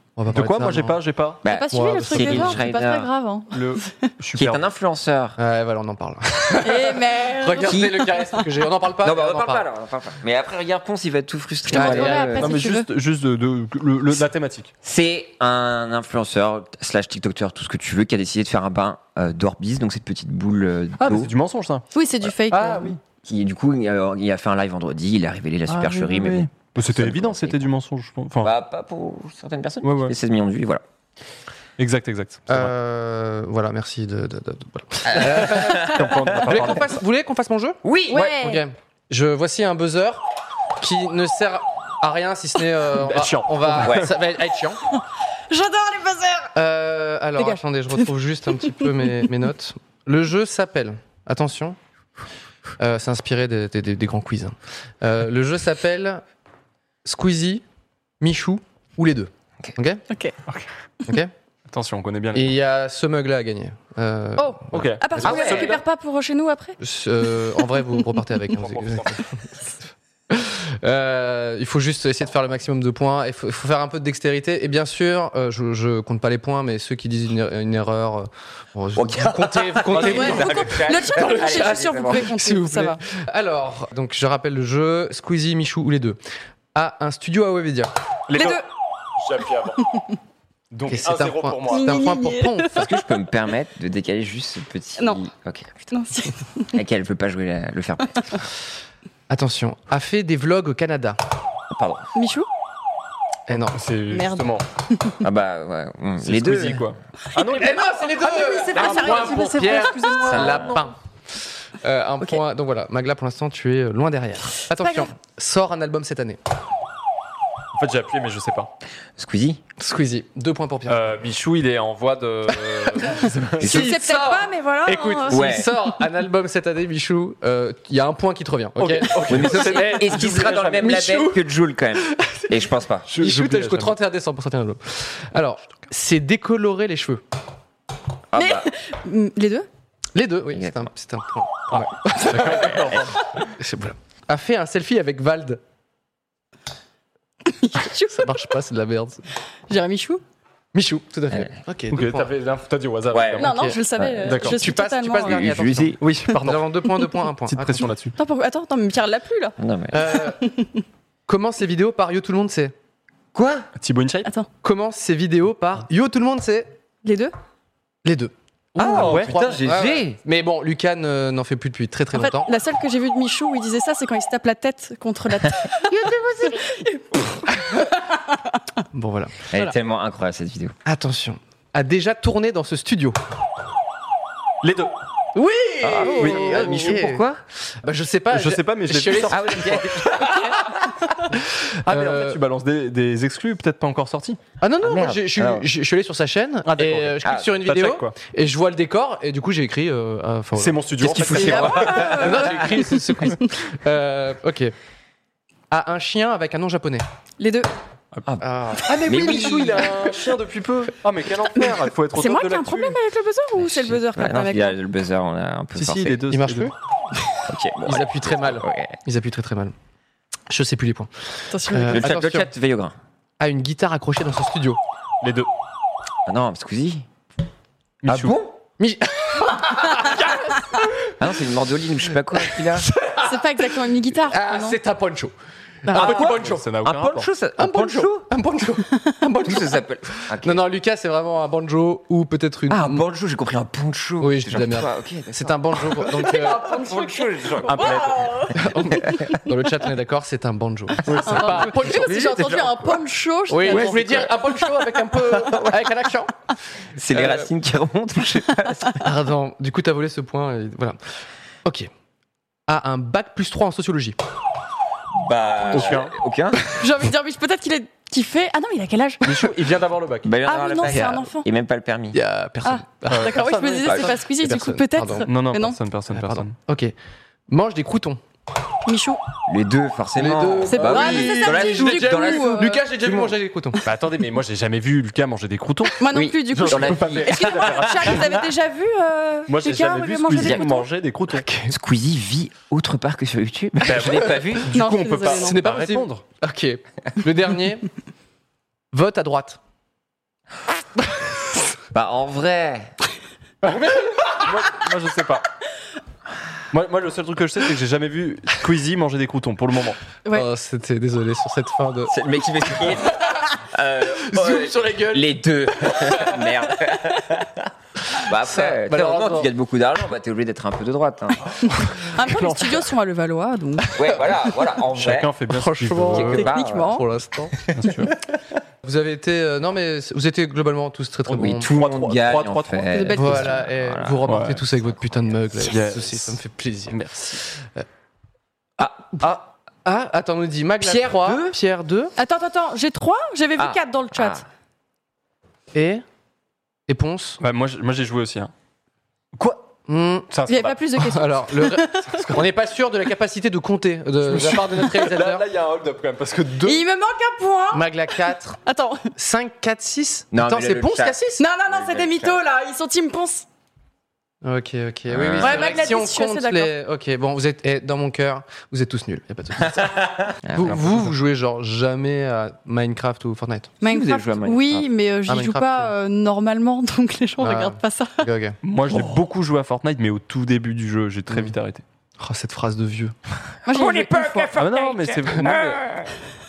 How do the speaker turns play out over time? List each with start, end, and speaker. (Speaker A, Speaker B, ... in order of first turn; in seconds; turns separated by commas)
Speaker A: 0.1-1.0, Speaker B: 0.3-1.4, Speaker C: 1.4-3.1, Speaker D: 1.4-4.1, Speaker A: 1.7-2.6, Speaker B: 3.5-4.6, Speaker C: 4.3-5.4, Speaker A: 5.4-9.6, Speaker D: 6.6-8.4, Speaker C: 7.6-8.1, Speaker C: 9.0-12.5, Speaker D: 11.7-12.9, Speaker A: 11.7-12.4, Speaker B: 12.4-14.7, Speaker C: 14.8-21.3, Speaker B: 21.0-21.8, Speaker D: 21.9-22.9, Speaker B: 22.5-23.0, Speaker C: 23.2-27.6, Speaker B: 25.7-28.5, Speaker C: 28.4-30.8, Speaker B: 29.8-30.1, Speaker B: 31.8-32.7, Speaker A: 32.5-40.2, Speaker C: 35.0-36.7, Speaker B: 35.3-37.0, Speaker C: 37.8-38.4, Speaker D: 38.1-38.6, Speaker A: 40.8-44.8, Speaker B: 43.0-44.1, Speaker C: 43.8-44.1, Speaker D: 44.9-46.5, Speaker A: 46.5-51.8, Speaker D: 47.4-48.1, Speaker D: 48.6-49.0, Speaker A: 52.8-56.2, Speaker A: 57.0-57.6, Speaker A: 58.2-60.0, Speaker D: 60.1-60.3, Speaker A: 61.1-61.3, Speaker B: 61.7-62.5, Speaker A: 62.3-64.9, Speaker D: 64.4-66.8, Speaker B: 64.7-65.8, Speaker C: 65.2-65.8, Speaker A: 66.8-69.7, Speaker D: 67.6-68.0, Speaker B: 68.5-69.2, Speaker A: 70.3-86.2, Speaker C: 78.9-82.3, Speaker B: 79.9-80.5, Speaker D: 80.0-83.0, Speaker A: 86.7-87.9, Speaker B: 88.3-88.6, Speaker D: 88.3-88.6, Speaker B: 89.2-89.8, Speaker B: 90.7-92.0, Speaker A: 90.9-92.9, Speaker D: 91.7-92.8, Speaker C: 92.7-95.9, Speaker D: 95.9-96.8, Speaker C: 96.7-98.4, Speaker A: 99.3-101.2, Speaker C: 101.7-102.1, Speaker D: 102.1-102.5, Speaker A: 103.5-103.8, Speaker B: 103.7-104.6, Speaker D: 104.1-105.2, Speaker C: 105.2-106.9, Speaker B: 106.2-107.8, Speaker A: 107.5-110.9, Speaker D: 107.5-110.8, Speaker C: 110.2-110.8, Speaker A: 111.8-116.4, Speaker D: 114.8-115.1, Speaker B: 117.7-118.7, Speaker C: 119.2-119.6, Speaker A: 119.8-121.1, Speaker B: 120.9-123.8, Speaker A: 122.7-131.4, Speaker C: 123.6-123.9, Speaker D: 123.6-125.7, Speaker C: 125.3-125.7, Speaker B: 128.8-130.9, Speaker C: 129.2-133.1, Speaker B: 133.1-133.9, Speaker A: 133.2-137.2, Speaker C: 138.3-138.7, Speaker D: 138.3-139.7, Speaker A: 140.1-143.0, Speaker C: 140.5-140.9, Speaker B: 141.7-143.4, Speaker C: 142.5-143.1, Speaker A: 143.6-145.6, Speaker D: 147.5-148.5, Speaker A: 148.2-149.2, Speaker D: 149.7-150.2, Speaker A: 150.7-152.3, Speaker B: 151.9-153.5, Speaker C: 153.1-153.4, Speaker D: 153.4-155.4, Speaker A: 153.4-153.8, Speaker C: 154.0-154.5, Speaker B: 154.2-154.6, Speaker A: 154.4-157.9, Speaker C: 155.2-156.0, Speaker B: 156.0-156.8, Speaker B: 157.5-158.1, Speaker D: 158.2-159.6, Speaker C: 159.6-160.2, Speaker A: 159.9-160.4, Speaker D: 160.3-160.8, Speaker A: 161.3-162.7, Speaker C: 163.3-163.7, Speaker B: 163.8-164.3, Speaker A: 164.6-166.7, Speaker D: 167.0-167.3, Speaker A: 168.0-172.5, Speaker C: 168.8-170.2, Speaker B: 168.8-169.8, Speaker D: 172.1-178.6, Speaker A: 178.9-179.4, Speaker C: 179.5-180.8, Speaker A: 180.8-183.2, Speaker B: 184.6-184.9, Speaker A: 185.3-187.2, Speaker C: 185.8-187.4, Speaker B: 186.2-186.9, Speaker A: 187.8-190.6, Speaker B: 188.3-190.2, Speaker C: 189.3-190.9, Speaker A: 191.3-192.4, Speaker B: 191.8-194.4, Speaker A: 194.6-204.7, Speaker C: 194.8-195.7, Speaker B: 196.7-198.1, Speaker C: 197.2-197.6, Speaker B: 200.6-202.3, Speaker C: 201.0-202.8, Speaker D: 201.3-203.5, Speaker A: 205.7-207.0, Speaker D: 207.4-207.7, Speaker C: 208.3-209.9, Speaker A: 208.4-210.1, Speaker B: 208.8-213.0, Speaker D: 212.1-214.8, Speaker C: 213.6-216.2, Speaker B: 215.7-216.7, Speaker A: 216.3-216.7, Speaker C: 217.5-219.0, Speaker A: 217.8-219.7, Speaker A: 220.5-222.5, Speaker D: 221.5-222.1, Speaker C: 221.9-222.9, Speaker A: 223.4-224.8, Speaker B: 225.2-225.5, Speaker C: 226.3-227.1, Speaker B: 228.0-228.4, Speaker C: 228.1-228.6, Speaker A: 228.8-231.3, Speaker C: 231.2-232.9, Speaker A: 232.3-235.3, Speaker D: 233.2-234.8, Speaker A: 235.8-236.7, Speaker D: 235.9-236.1, Speaker C: 235.9-238.3, Speaker B: 236.2-237.3, Speaker A: 237.6-243.0, Speaker C: 239.4-240.7, Speaker C: 242.7-249.4, Speaker A: 244.2-247.1, Speaker D: 247.6-248.8, Speaker B: 247.7-248.1, Speaker A: 248.5-252.3, Speaker C: 251.0-253.0, Speaker B: 251.1-251.4, Speaker D: 251.2-254.5, Speaker A: 253.5-256.3, Speaker C: 253.6-256.0, Speaker C: 257.0-259.1, Speaker A: 257.1-257.5, Speaker A: 259.0-261.0, Speaker A: 261.6-261.9, Speaker A: 262.7-264.2, Speaker C: 265.1-266.6, Speaker B: 265.7-266.1, Speaker D: 266.7-269.3, Speaker B: 269.2-270.3, Speaker C: 270.2-272.2, Speaker D: 270.4-271.5, Speaker A: 272.1-275.3, Speaker D: 272.6-275.8, Speaker B: 273.1-274.2, Speaker B: 275.2-276.5, Speaker A: 276.1-276.9, Speaker A: 277.5-278.2, Speaker D: 278.9-279.2, Speaker C: 279.5-283.4, Speaker A: 280.1-283.8, Speaker D: 280.7-282.8, Speaker B: 283.8-286.0, Speaker D: 286.0-290.9, Speaker C: 286.1-288.3, Speaker B: 286.5-288.4, Speaker B: 289.5-291.5, Speaker C: 290.3-290.6, Speaker A: 291.3-291.7, Speaker C: 291.7-294.7, Speaker B: 293.8-296.2, Speaker D: 294.7-295.6, Speaker A: 295.3-297.9, Speaker A: 298.9-299.6, Speaker C: 301.9-302.9, Speaker B: 303.6-305.5, Speaker A: 303.8-304.1, Speaker B: 306.7-310.0, Speaker A: 310.3-312.1, Speaker C: 312.1-321.7, Speaker A: 312.7-313.3, Speaker A: 314.2-316.5, Speaker A: 318.3-319.5, Speaker D: 321.9-324.2, Speaker B: 322.2-322.9, Speaker C: 323.9-325.3, Speaker B: 324.9-326.5, Speaker A: 325.5-327.6, Speaker C: 326.1-327.0, Speaker D: 326.3-327.1, Speaker C: 327.5-328.1, Speaker B: 327.7-328.1, Speaker A: 328.8-331.7, Speaker C: 331.3-334.4, Speaker B: 331.3-332.9, Speaker D: 332.9-333.5, Speaker A: 333.1-337.9, Speaker B: 334.2-334.6, Speaker B: 335.6-337.4, Speaker A: 338.8-342.1, Speaker C: 340.8-341.6, Speaker D: 342.1-344.4, Speaker C: 343.6-344.4, Speaker A: 345.7-346.0, Speaker A: 346.9-347.4, Speaker B: 347.4-348.5, Speaker B: 349.4-349.7, Speaker A: 349.9-350.3, Speaker B: 350.3-350.8, Speaker D: 350.5-352.3, Speaker A: 351.0-355.5, Speaker B: 354.2-356.8, Speaker D: 356.6-359.1, Speaker A: 357.7-358.6, Speaker A: 359.1-361.4, Speaker C: 360.3-362.4, Speaker D: 361.4-363.4, Speaker A: 364.4-373.7, Speaker C: 365.1-365.8, Speaker D: 365.4-366.7, Speaker C: 369.6-371.1, Speaker D: 373.8-378.2, Speaker C: 373.8-374.9, Speaker A: 375.3-375.9, Speaker A: 377.4-378.6, Speaker B: 378.6-381.8, Speaker A: 381.3-381.5, Speaker A: 382.2-383.1, Speaker D: 383.6-384.5, Speaker C: 383.7-386.1, Speaker B: 384.6-385.9